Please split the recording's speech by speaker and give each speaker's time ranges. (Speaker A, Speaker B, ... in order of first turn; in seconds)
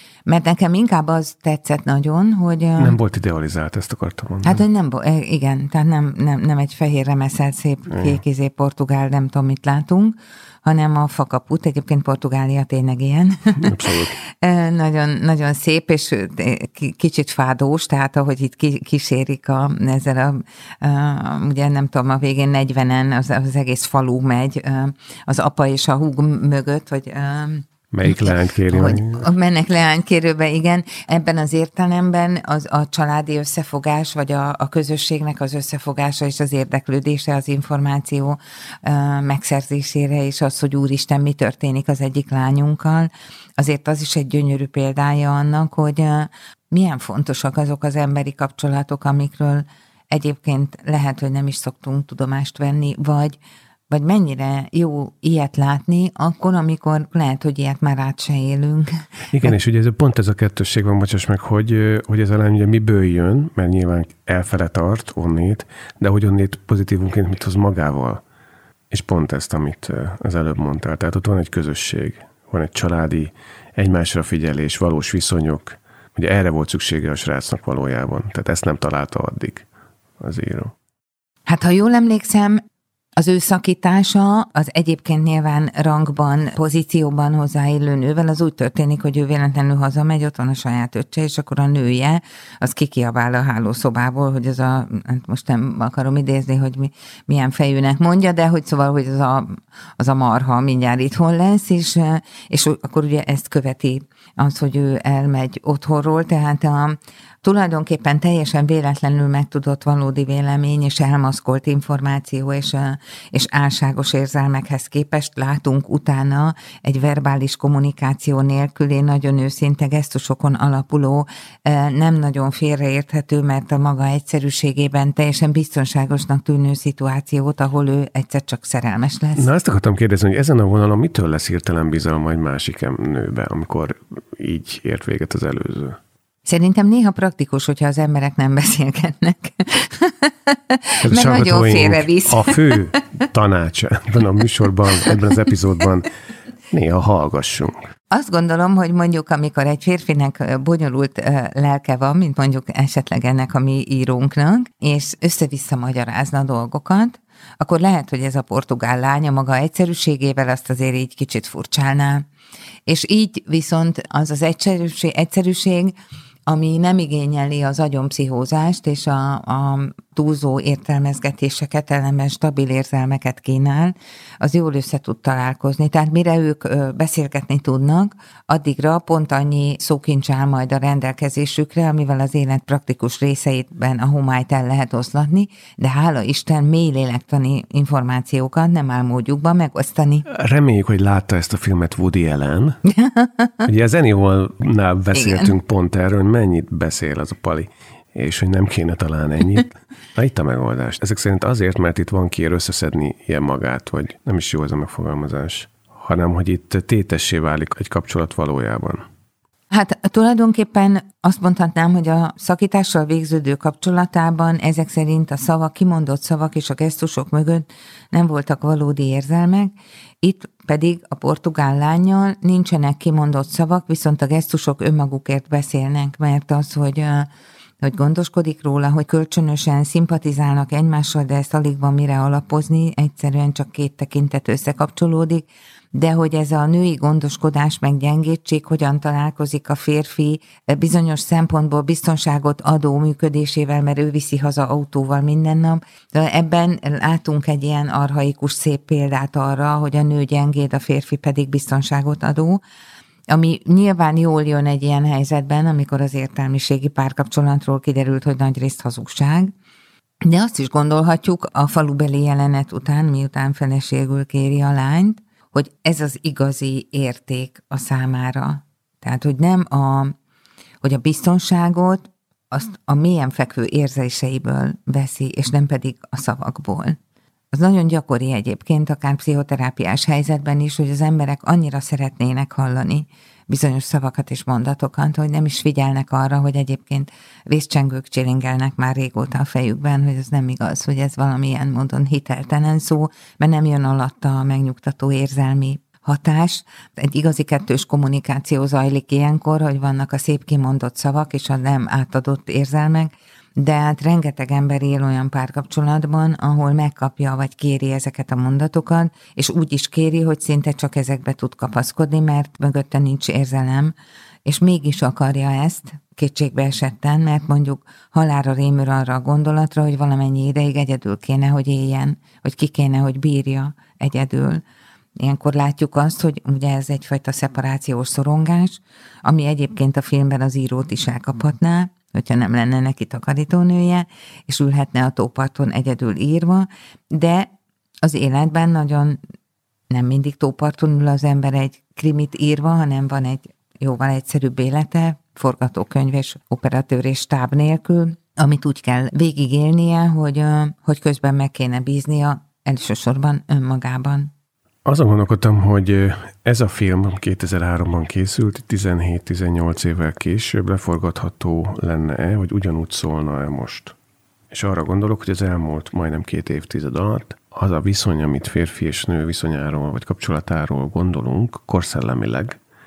Speaker A: 0.2-3.0, 4.4-59.5, 81.5-82.6, 83.2-129.5, 136.4-143.0, 148.1-162.2, 162.9-165.9, 166.5-190.2, 192.9-193.7, 195.1-195.5, 209.7-227.3, 227.8-252.6, 253.3-259.5, 260.2-270.1, 270.8-277.0, 277.5-313.9, 314.4-324.6, 325.2-337.5, 338.0-339.2, 339.9-354.3
Speaker B: 2.8-4.6, 13.6-14.2, 27.9-29.3, 59.3-68.2, 68.9-79.7, 80.2-80.7, 129.3-136.0, 141.0-146.1, 146.7-147.8, 190.3-192.8, 193.6-209.0, 354.9-363.9, 364.5-372.6